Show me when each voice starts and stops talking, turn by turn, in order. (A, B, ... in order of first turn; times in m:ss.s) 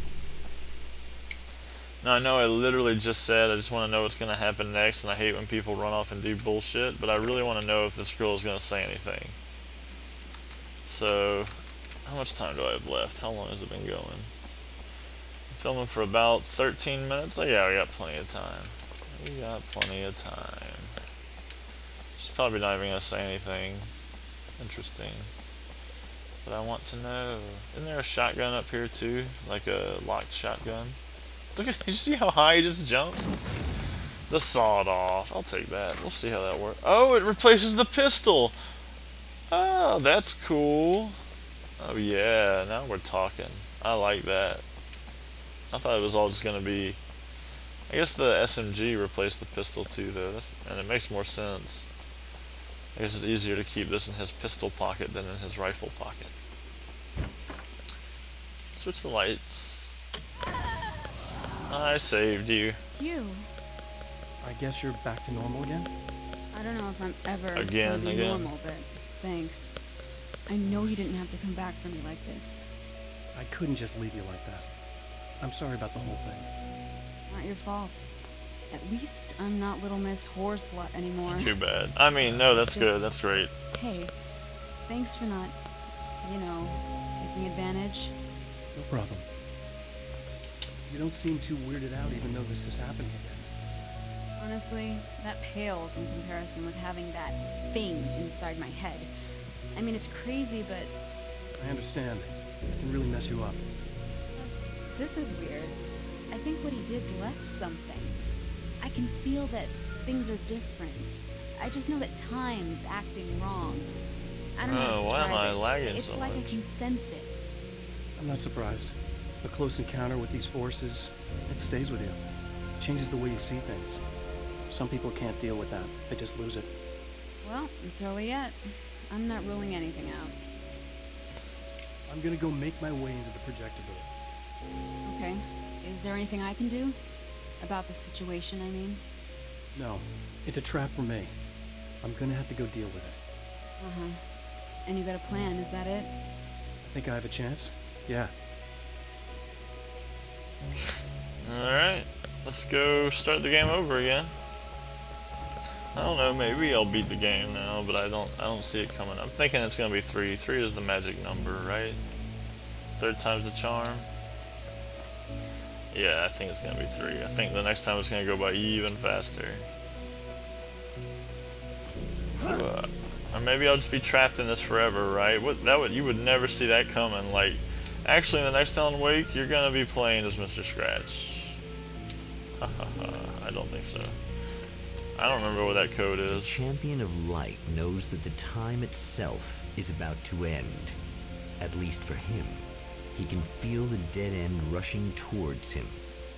0:02.0-0:09.4 A
0:10.8-0:11.5 A
0:12.0-0:14.3 A
0:15.5-0:20.9 A
0:22.2-0:23.9 A
0:24.6-0:25.3 A
0:26.4-0:31.0 A
0:31.5-0:33.3 A
0:34.3-0:38.6 A
0:39.5-0:41.2 A
0:41.8-0:44.6 A
0:45.7-0:47.0 A
0:47.9-0:51.9 A
0:52.9-0:56.3 A
0:58.7-1:00.0 A
1:01.7-1:02.8 A
1:02.9-1:03.5 B
1:04.4-1:05.9 C
1:06.5-1:09.7 B
1:07.5-1:08.5 A
1:10.5-1:12.6 B
1:13.3-1:14.7 C
1:15.4-1:16.5 C
1:17.3-1:18.0 B
1:18.7-1:21.5 B
1:21.2-1:23.5 A
1:22.3-1:23.0 B
1:23.7-1:24.1 B
1:24.8-1:25.5 B
1:26.2-1:28.1 B
1:28.7-1:29.2 C
1:30.9-1:33.5 C
1:34.4-1:39.1 B
1:39.7-1:40.9 B
1:41.6-1:43.6 C
1:44.3-1:45.8 B
1:46.3-1:48.2 B
1:48.8-1:53.9 B
1:54.6-1:57.3 B
1:54.6-1:56.6 A
1:58.2-2:02.2 C
2:02.8-2:04.0 C
2:04.7-2:06.7 C
2:07.4-2:10.4 B
2:12.1-2:14.1 C
2:15.0-2:17.0 B
2:17.6-2:19.0 B
2:19.7-2:21.3 C
2:22.0-2:23.2 C
2:23.8-2:24.2 B
2:24.8-2:26.1 B
2:26.8-2:28.3 C
2:31.4-2:34.3 A
2:35.9-2:42.0 A
2:43.0-2:44.1 A
2:45.9-2:49.7 A
2:52.4-3:01.6 A
3:02.6-3:04.2 A
3:05.2-3:06.6 A
3:06.3-3:11.0 D
3:11.6-3:16.0 D